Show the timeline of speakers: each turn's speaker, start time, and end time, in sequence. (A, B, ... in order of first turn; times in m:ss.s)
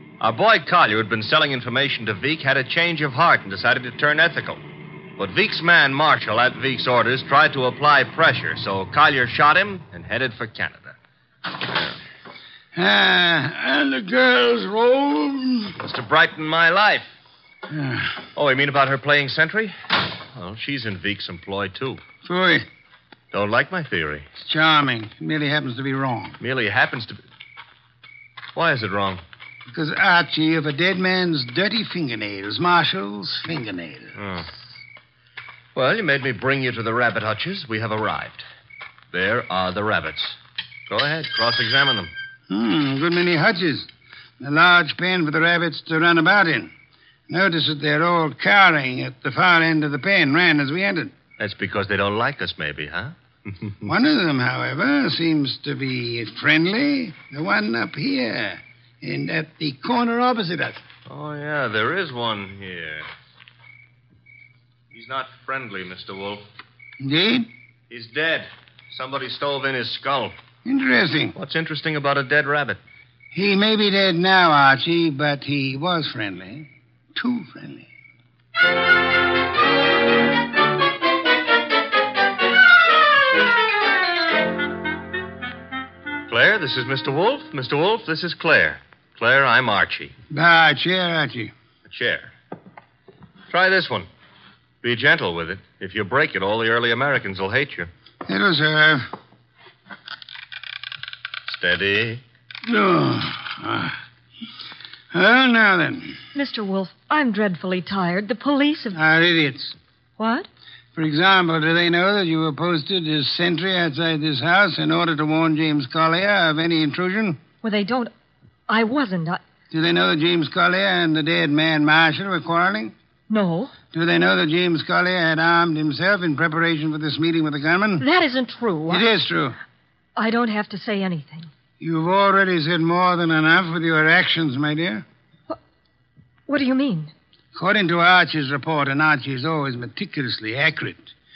0:00.2-0:04.6 A
0:05.2-0:11.0 A
0:12.8-0:15.8 B
0:15.8-0:17.1 A
0:17.7-0:18.2 B
0:18.4-0:19.8 A
0:20.3-0:22.0 A
0:22.2-0:22.7 B
0:23.3-0:24.2 A
0:24.4-0:26.4 B
0:26.4-0:27.2 A
0:28.6-0:29.2 A
0:29.7-0:34.1 B
0:34.2-0:34.5 A
0:35.8-0:38.5 A
0:39.1-0:40.4 A
0:40.9-0:42.1 A
0:42.5-0:43.9 B
0:44.4-0:46.7 B
0:47.3-0:51.1 B
0:51.4-0:53.7 A
0:53.8-1:00.8 B
1:01.1-1:03.1 A
1:04.9-1:06.4 A
1:07.0-1:07.5 B
1:07.9-1:10.4 A
1:10.6-1:11.4 B
1:11.4-1:12.8 A
1:13.3-1:17.9 B
1:26.3-1:30.1 A
1:30.3-1:31.5 B
1:31.9-1:32.3 A
1:33.5-1:34.1 A
1:34.8-1:37.9 A
1:38.3-1:39.0 B
1:41.5-1:42.2 A
1:42.7-1:44.0 B
1:45.1-1:46.2 B
1:46.3-1:49.0 C
1:48.9-1:49.8 B
1:50.2-1:50.5 C
1:51.0-1:57.4 B
1:57.6-1:58.1 C
1:58.7-1:59.4 C
1:59.7-2:02.9 B
2:03.3-2:03.8 C
2:03.9-2:08.1 B
2:08.0-2:09.1 C
2:08.9-2:09.6 B
2:10.2-2:11.5 C
2:11.8-2:15.0 B
2:16.5-2:17.1 C
2:17.5-2:21.1 B